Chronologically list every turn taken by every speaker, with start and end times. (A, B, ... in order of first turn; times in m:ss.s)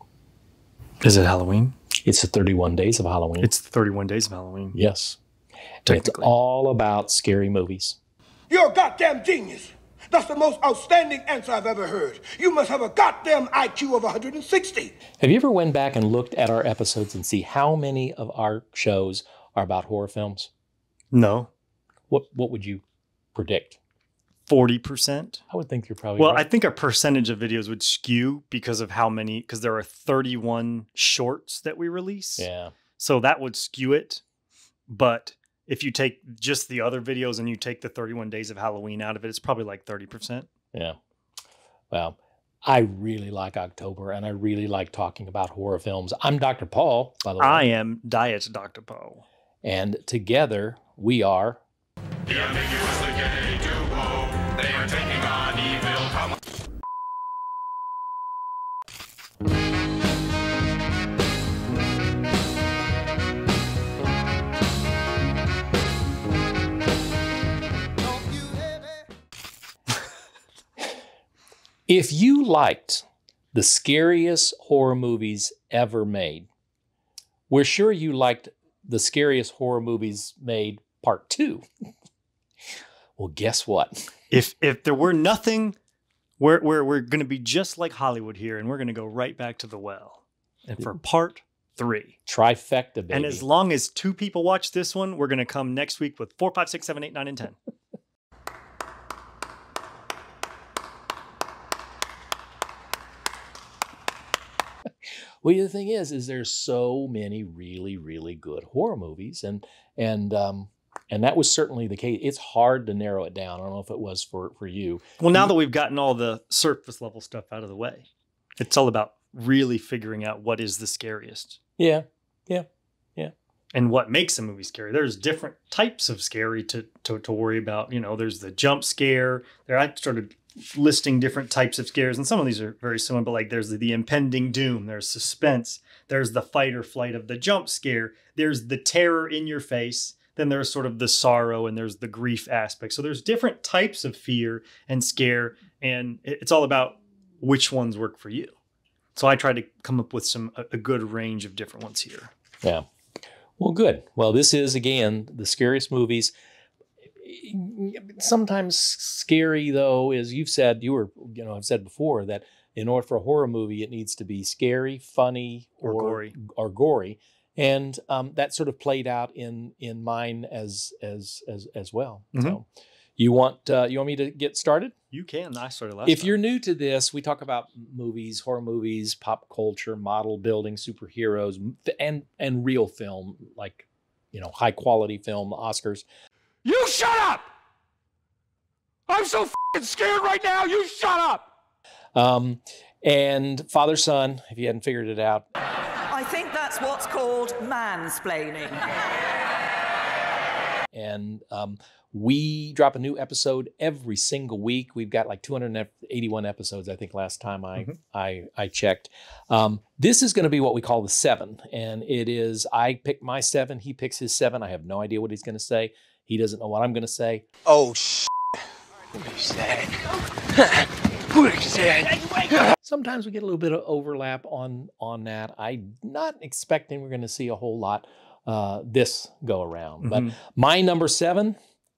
0:01.0-0:01.8 A
0:02.0-0:03.5 B
0:03.4-0:04.8 A
0:04.7-0:05.2 B
0:05.8-0:08.0 B
0:05.9-0:06.3 A
0:08.5-0:14.9 C
0:15.2-0:20.5 B
0:21.1-0:21.5 A
0:22.1-0:22.8 B
0:23.3-0:23.8 B
0:24.5-0:25.4 A
0:25.5-0:26.4 B
0:26.2-0:32.5 A
0:32.4-0:32.7 B
0:33.0-0:34.2 A
0:34.9-0:40.5 A
0:41.9-0:47.6 B
0:47.4-0:49.2 A
0:49.6-0:51.6 B
0:52.3-0:56.1 D
1:11.9-1:16.5 B
1:17.5-1:21.6 B
1:23.2-1:24.1 B
1:24.3-1:25.8 A
1:26.4-1:32.2 A
1:32.3-1:33.4 B
1:33.1-1:37.6 A
1:45.4-1:55.5 B
1:55.2-1:58.0 A
1:58.6-2:01.6 A
2:01.8-2:02.6 B
2:03.7-2:28.5 A
2:29.2-2:32.3 A
2:33.6-2:36.3 B
2:37.2-2:52.6 B
2:45.8-2:46.4 A
2:53.2-2:54.9 B
2:55.1-2:56.4 A
2:56.0-3:06.0 B
3:06.6-3:07.5 D
3:09.1-3:11.5 D
3:12.1-3:15.4 B
3:16.1-3:18.8 E
3:20.9-3:37.4 B
3:37.7-3:38.2 D
3:39.4-3:39.9 D
3:42.8-3:51.6 B
3:50.0-3:50.3 A